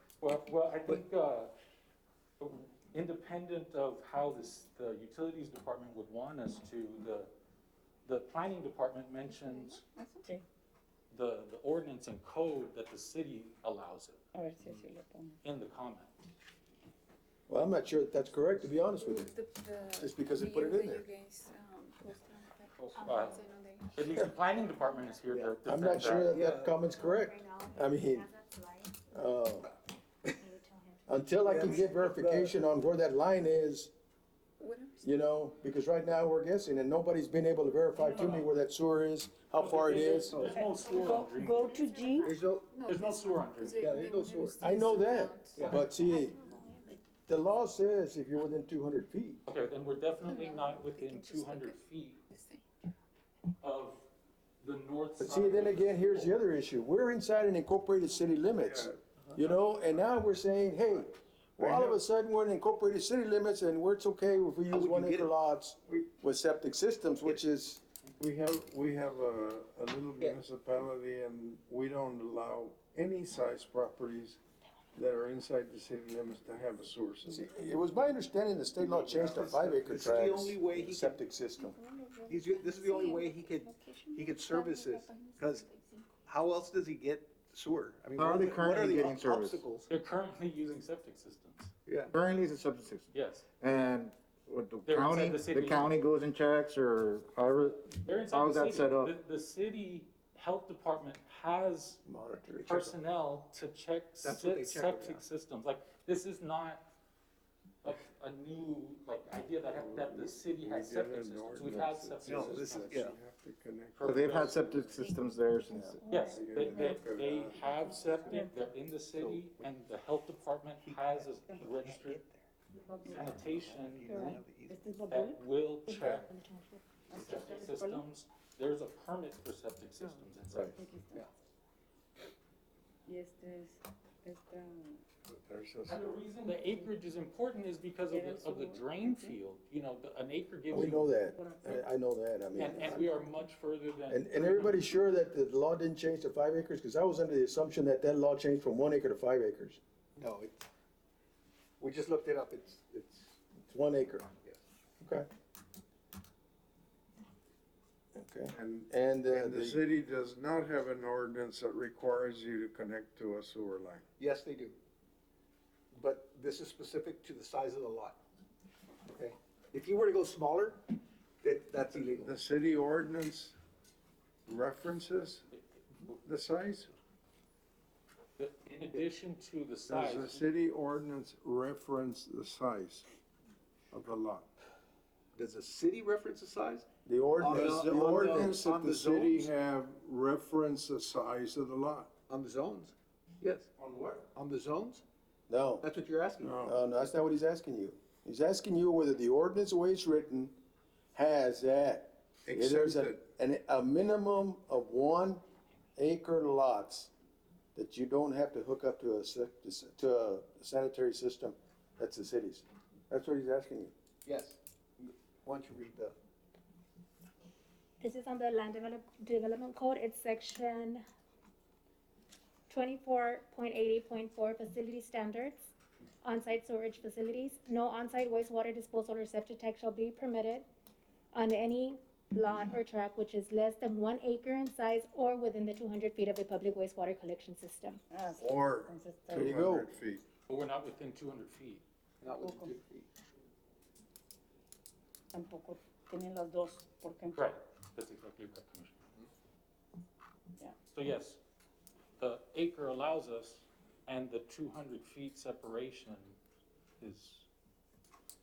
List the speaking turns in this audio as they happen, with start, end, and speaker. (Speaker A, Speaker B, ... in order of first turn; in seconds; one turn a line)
Speaker A: 0.2-1.5
Speaker A: 2.4-7.3
Speaker A: 8.0-9.8
Speaker B: 9.4-10.3
Speaker A: 11.1-14.9
Speaker C: 14.3-15.4
Speaker A: 15.4-16.2
Speaker D: 17.5-19.4
Speaker B: 18.9-24.0
Speaker D: 19.9-21.1
Speaker A: 22.8-23.4
Speaker E: 22.9-23.4
Speaker A: 23.9-26.3
Speaker E: 24.8-25.2
Speaker F: 25.3-26.8
Speaker D: 25.6-28.3
Speaker E: 26.9-29.0
Speaker D: 29.1-29.7
Speaker E: 30.4-31.8
Speaker D: 31.1-33.9
Speaker F: 31.4-32.6
Speaker B: 34.6-35.1
Speaker D: 35.0-40.5
Speaker A: 38.1-38.5
Speaker A: 39.6-41.7
Speaker F: 39.9-40.7
Speaker C: 40.5-42.3
Speaker E: 40.8-42.2
Speaker F: 42.2-42.7
Speaker B: 42.7-46.0
Speaker A: 42.9-43.9
Speaker F: 43.7-44.6
Speaker D: 44.6-46.4
Speaker F: 45.5-45.9
Speaker E: 46.1-46.8
Speaker D: 47.3-49.4
Speaker A: 49.5-52.2
Speaker B: 50.2-52.7
Speaker A: 53.6-54.1
Speaker A: 54.6-56.3
Speaker D: 55.2-67.8
Speaker G: 58.6-59.0
Speaker G: 61.6-62.0
Speaker F: 64.7-65.3
Speaker G: 68.2-74.4
Speaker G: 74.9-77.4
Speaker D: 77.3-81.8
Speaker F: 78.8-81.2
Speaker G: 79.0-79.4
Speaker B: 81.6-86.1
Speaker F: 82.3-85.7
Speaker F: 86.2-89.9
Speaker H: 88.2-89.6
Speaker A: 89.9-91.7
Speaker F: 91.8-92.1
Speaker H: 92.1-99.1
Speaker A: 93.1-93.4
Speaker A: 94.8-96.0
Speaker A: 97.9-102.0
Speaker D: 102.0-103.0
Speaker A: 102.6-106.8
Speaker F: 104.2-105.2
Speaker A: 107.8-113.0
Speaker G: 109.7-115.0
Speaker F: 112.2-113.1
Speaker A: 114.0-114.8
Speaker H: 114.0-116.0
Speaker E: 116.0-117.0
Speaker A: 116.1-122.2
Speaker G: 116.2-118.5
Speaker E: 117.6-118.0
Speaker C: 118.1-118.5
Speaker F: 119.1-119.7
Speaker F: 120.8-122.4
Speaker C: 122.7-123.5
Speaker A: 123.1-124.3
Speaker F: 123.1-124.9
Speaker C: 124.0-126.2
Speaker A: 125.1-126.3
Speaker E: 126.1-126.8
Speaker C: 127.1-128.0
Speaker A: 127.1-130.8
Speaker D: 130.5-130.8
Speaker C: 130.7-131.3
Speaker C: 133.1-135.0
Speaker G: 135.3-136.2
Speaker A: 135.9-141.2
Speaker C: 138.1-139.4
Speaker D: 140.7-143.1
Speaker C: 141.3-141.8
Speaker A: 142.6-145.0
Speaker D: 144.1-149.8
Speaker F: 150.2-150.7
Speaker F: 151.8-153.3
Speaker D: 153.7-154.3
Speaker D: 155.0-155.3
Speaker D: 158.1-159.8
Speaker G: 158.5-164.0
Speaker F: 164.2-164.8
Speaker F: 165.9-168.2
Speaker F: 169.1-170.8
Speaker F: 171.4-172.3
Speaker G: 172.1-173.5
Speaker G: 174.5-175.5
Speaker A: 175.5-176.2
Speaker G: 176.2-176.9
Speaker A: 178.4-180.4
Speaker G: 179.9-183.1
Speaker G: 183.9-184.5
Speaker F: 185.3-186.9
Speaker D: 187.1-188.6
Speaker F: 187.4-189.5
Speaker G: 187.5-192.1
Speaker F: 192.3-193.7
Speaker D: 193.8-194.2
Speaker F: 194.3-195.0
Speaker D: 195.5-195.9
Speaker F: 195.8-196.7
Speaker G: 196.4-196.7
Speaker D: 196.6-200.6
Speaker D: 201.1-205.4
Speaker G: 202.5-203.1
Speaker D: 205.9-207.1
Speaker D: 207.7-213.9
Speaker F: 214.2-216.2
Speaker E: 218.0-221.0
Speaker E: 222.7-225.7
Speaker E: 226.2-230.7
Speaker E: 231.3-238.0
Speaker C: 238.1-239.5
Speaker G: 238.4-240.2
Speaker D: 239.3-239.9
Speaker A: 240.5-241.8
Speaker F: 242.2-243.1
Speaker C: 242.4-242.8
Speaker C: 245.3-247.4
Speaker A: 247.3-249.0
Speaker A: 250.9-251.4
Speaker A: 252.2-256.4
Speaker A: 257.0-257.5